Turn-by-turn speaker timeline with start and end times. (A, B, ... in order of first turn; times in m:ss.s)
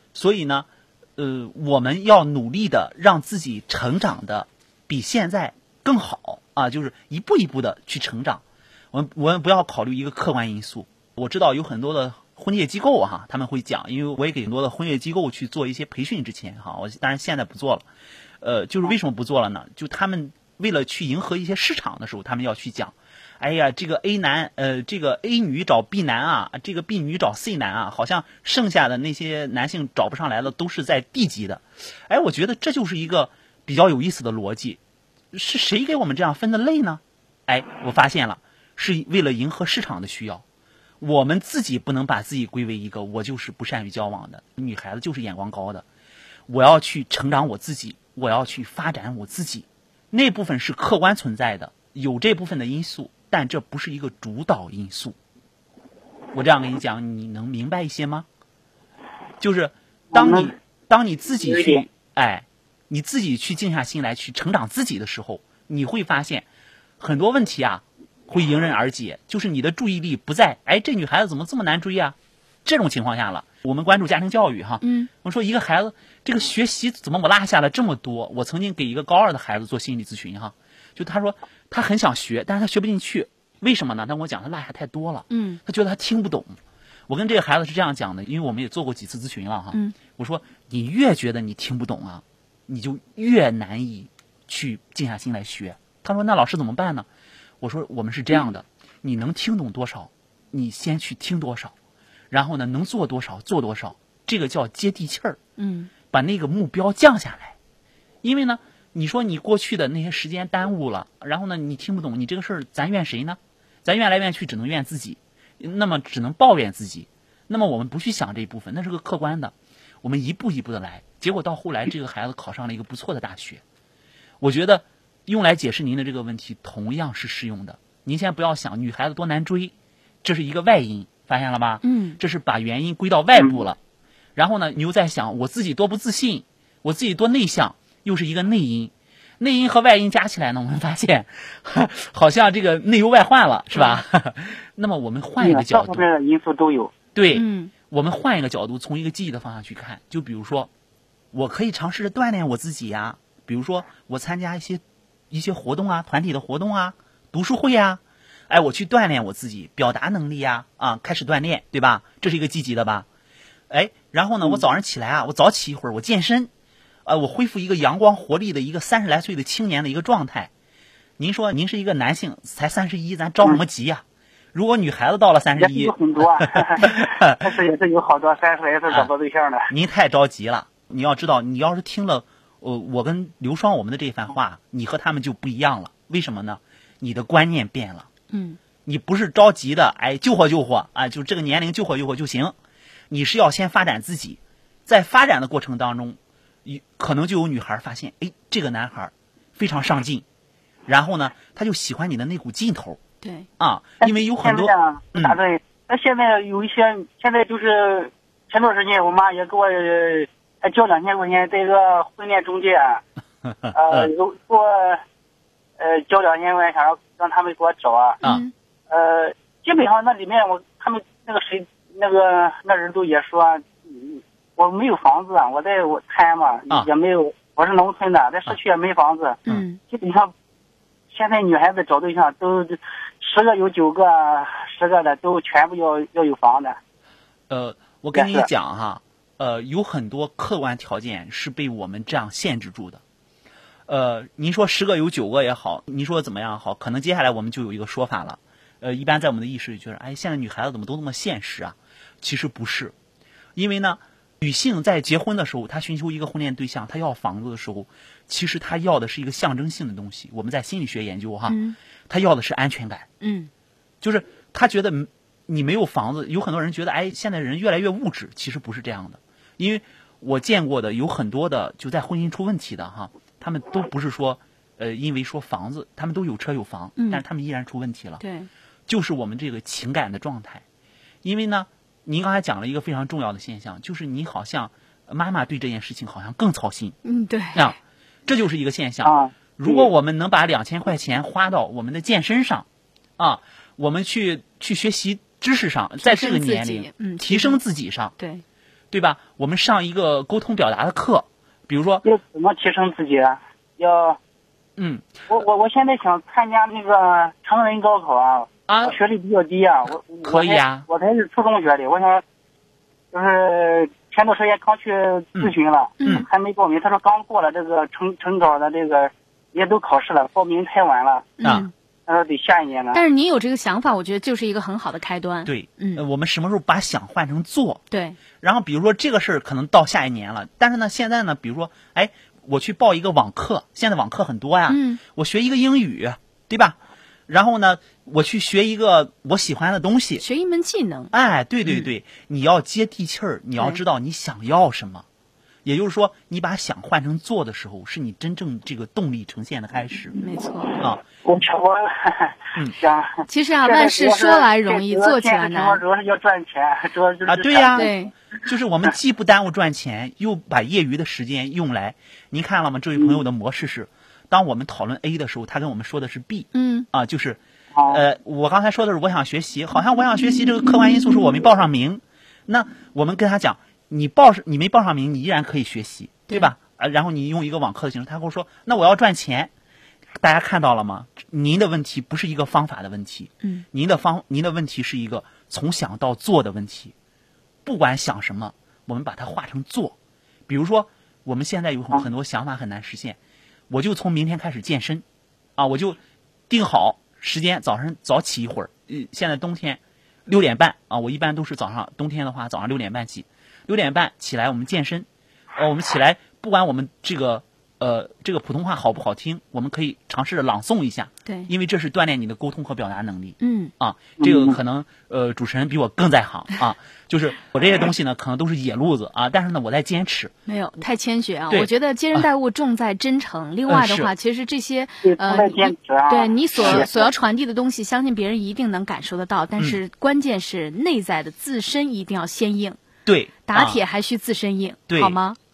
0:00.1-0:17.8 A
0:18.4-0:34.8 A
0:35.3-0:40.4 A
0:41.0-0:45.8 A
0:46.5-0:55.2 A
0:56.3-0:58.3 A
0:59.4-1:06.4 A
1:00.1-1:00.5 B
1:01.4-1:01.8 B
1:07.0-1:26.6 A
1:14.8-1:15.1 C
1:25.3-1:25.6 C
1:27.1-1:37.1 A
1:37.6-1:41.7 A
1:42.3-1:45.4 A
1:45.6-1:45.9 C
1:46.1-1:47.6 A
1:48.2-2:03.6 A
2:04.4-2:13.8 A
2:11.8-2:12.2 C
2:14.4-2:26.0 A
2:23.7-2:24.0 C
2:25.4-2:26.9 B
2:27.1-2:30.7 A
2:27.3-2:27.7 C
2:31.3-2:43.1 A
2:43.7-2:46.5 A
2:47.0-2:50.5 A
2:51.2-2:54.0 A
2:54.5-2:57.4 A
2:55.6-2:59.7 B
2:59.7-3:08.1 A
3:08.3-3:08.6 C
3:08.8-3:12.5 A
3:13.1-3:20.2 A
3:20.9-3:23.0 A
3:23.2-3:23.5 C
3:23.6-3:25.4 A
3:24.0-3:33.0 B
3:33.5-3:34.1 A
3:33.7-3:35.0 B
3:35.8-3:38.2 B
3:38.2-3:38.5 C
3:38.9-3:50.3 B
3:49.5-3:49.8 C
3:51.1-3:56.8 B
3:57.5-4:03.0 A
3:58.1-3:58.5 B
4:03.9-4:12.9 A
4:13.5-4:23.1 A
4:21.5-4:21.8 C
4:23.2-4:23.5 C
4:24.0-4:38.2 A
4:37.0-4:37.2 C
4:38.2-4:38.5 C
4:38.9-4:40.6 A
4:41.2-4:47.0 A
4:47.0-4:47.7 C
4:47.5-4:52.6 A
4:49.0-4:49.8 B
4:53.2-4:58.1 A
4:56.0-4:57.6 C
4:58.2-4:58.4 C
4:58.9-5:02.0 A
5:02.0-5:04.2 B
5:04.8-5:05.2 A
5:05.3-5:12.2 B
5:08.7-5:09.0 A
5:10.2-5:10.8 A
5:13.1-5:21.3 B
5:15.4-5:16.3 A
5:16.0-5:16.3 C
5:21.4-5:21.7 C
5:21.4-5:21.7 A
5:22.1-5:23.0 B
5:22.9-5:26.0 C
5:25.4-5:27.8 A
5:27.9-5:28.2 C
5:28.4-5:36.8 A
5:34.7-5:35.0 C
5:37.3-5:40.2 A
5:40.2-5:41.1 C
5:41.1-5:45.0 A
5:45.6-5:50.2 A
5:50.2-5:50.8 C
5:51.2-5:58.0 B
5:53.2-5:55.8 C
5:57.2-6:19.5 A
5:57.8-5:58.1 C
6:06.5-6:06.9 C
6:07.7-6:08.0 B
6:20.2-6:26.9 A
6:27.6-6:30.0 A
6:30.5-6:33.2 A
6:33.7-6:35.0 A
6:35.6-7:00.3 A
6:53.4-6:53.7 C
6:54.2-6:54.6 B
7:00.4-7:12.8 C
7:01.5-7:02.3 A
7:03.7-7:04.1 A
7:05.0-7:07.1 B
7:06.6-7:06.8 A
7:13.0-7:13.8 A
7:13.5-7:15.4 C
7:14.9-7:15.2 A